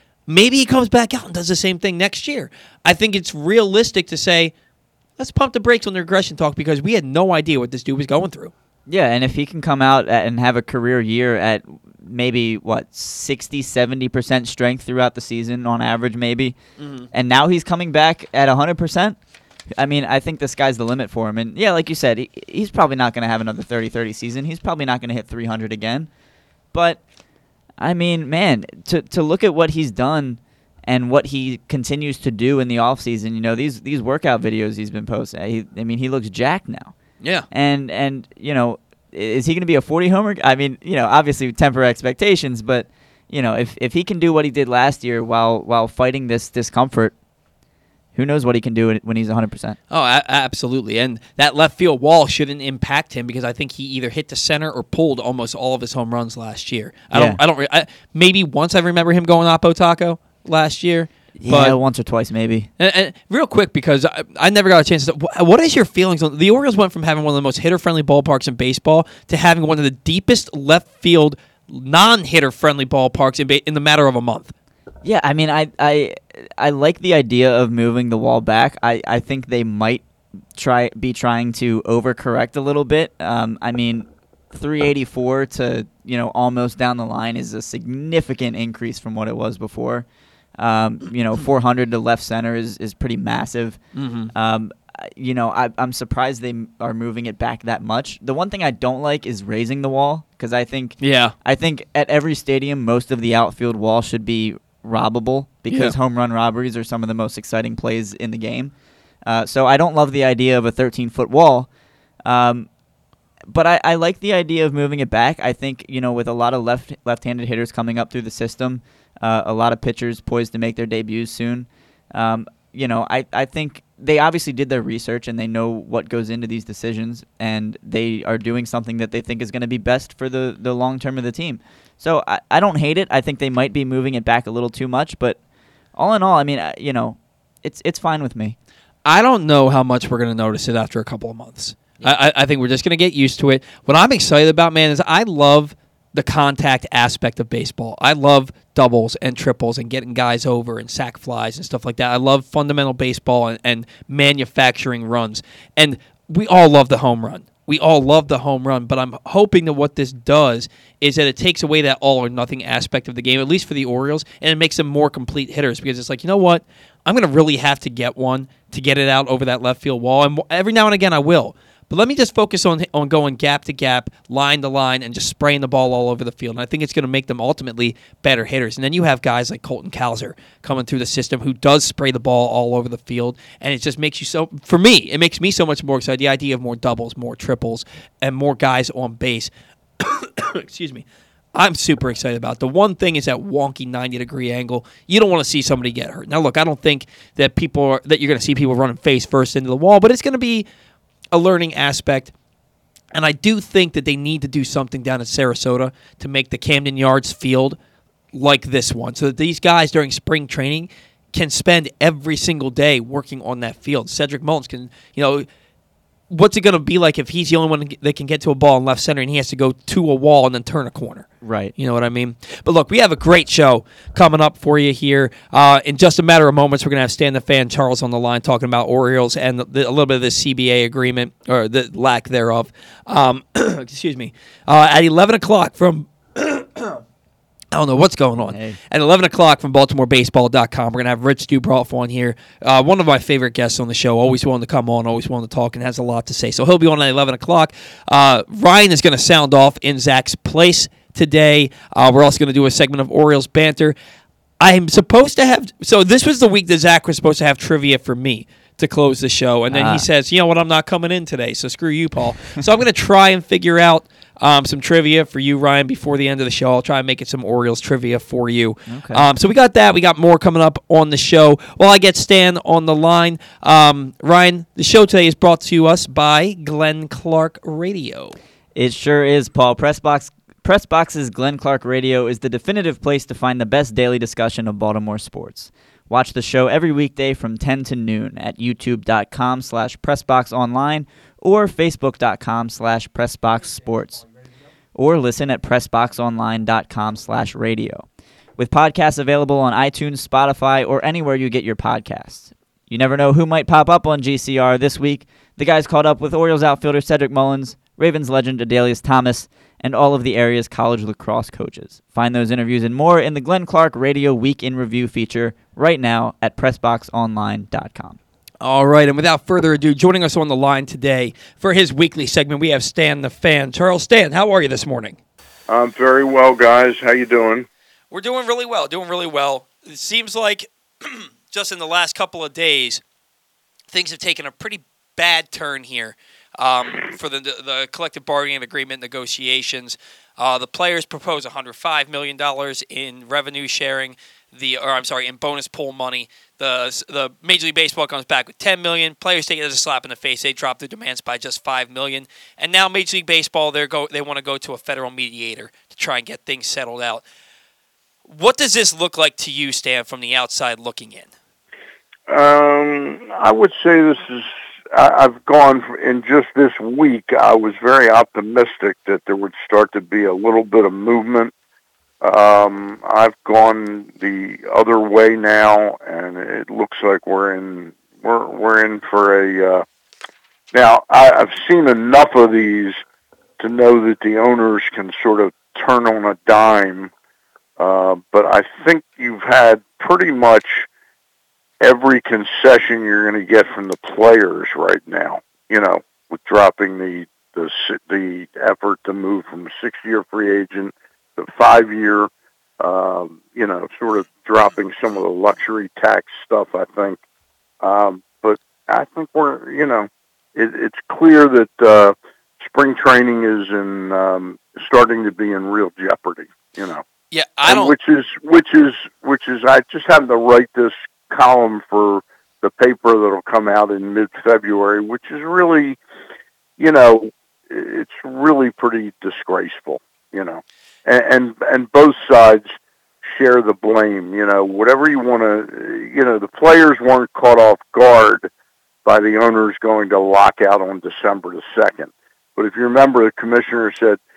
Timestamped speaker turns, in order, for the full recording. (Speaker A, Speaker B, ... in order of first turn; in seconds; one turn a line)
Speaker A: 0.3-4.5
Speaker A: 5.2-8.5
Speaker B: 8.9-16.6
Speaker A: 16.8-17.1
Speaker B: 17.1-19.2
Speaker B: 19.8-26.1
Speaker B: 26.7-27.0
Speaker B: 27.8-36.9
Speaker A: 37.2-37.5
Speaker B: 37.5-47.1
Speaker B: 48.1-49.8
Speaker A: 49.9-61.8
Speaker B: 57.1-57.4
Speaker B: 61.4-62.7
Speaker A: 62.8-74.5
Speaker B: 75.0-90.1
Speaker B: 90.6-93.8
Speaker A: 93.9-94.3
Speaker B: 94.3-108.7
Speaker A: 101.0-101.3
Speaker A: 105.7-106.0
Speaker B: 109.2-111.7
Speaker B: 112.2-112.7
Speaker B: 113.5-135.4
Speaker B: 135.9-138.6
Speaker A: 139.1-200.7
Speaker A: 201.3-202.3
Speaker A: 203.1-207.8
Speaker A: 208.3-215.5
Speaker A: 216.3-237.0
Speaker B: 221.4-221.7
Speaker A: 237.7-253.9
Speaker B: 238.4-238.8
Speaker A: 254.6-278.4
Speaker B: 259.7-260.1
Speaker B: 268.9-269.3
Speaker B: 278.8-294.2
Speaker B: 294.9-298.1
Speaker B: 298.6-318.2
Speaker A: 318.6-325.2
Speaker C: 325.7-327.7
Speaker A: 328.1-333.0
Speaker A: 333.9-357.2
Speaker A: 358.2-361.3
Speaker C: 362.3-371.5
Speaker C: 372.2-379.9
Speaker C: 380.7-383.0
Speaker C: 383.6-387.1
Speaker C: 387.8-390.9
Speaker C: 391.8-407.2
Speaker C: 407.8-417.0
Speaker A: 417.3-418.0
Speaker C: 417.6-426.0
Speaker C: 426.8-432.7
Speaker C: 433.2-438.5
Speaker C: 439.1-444.2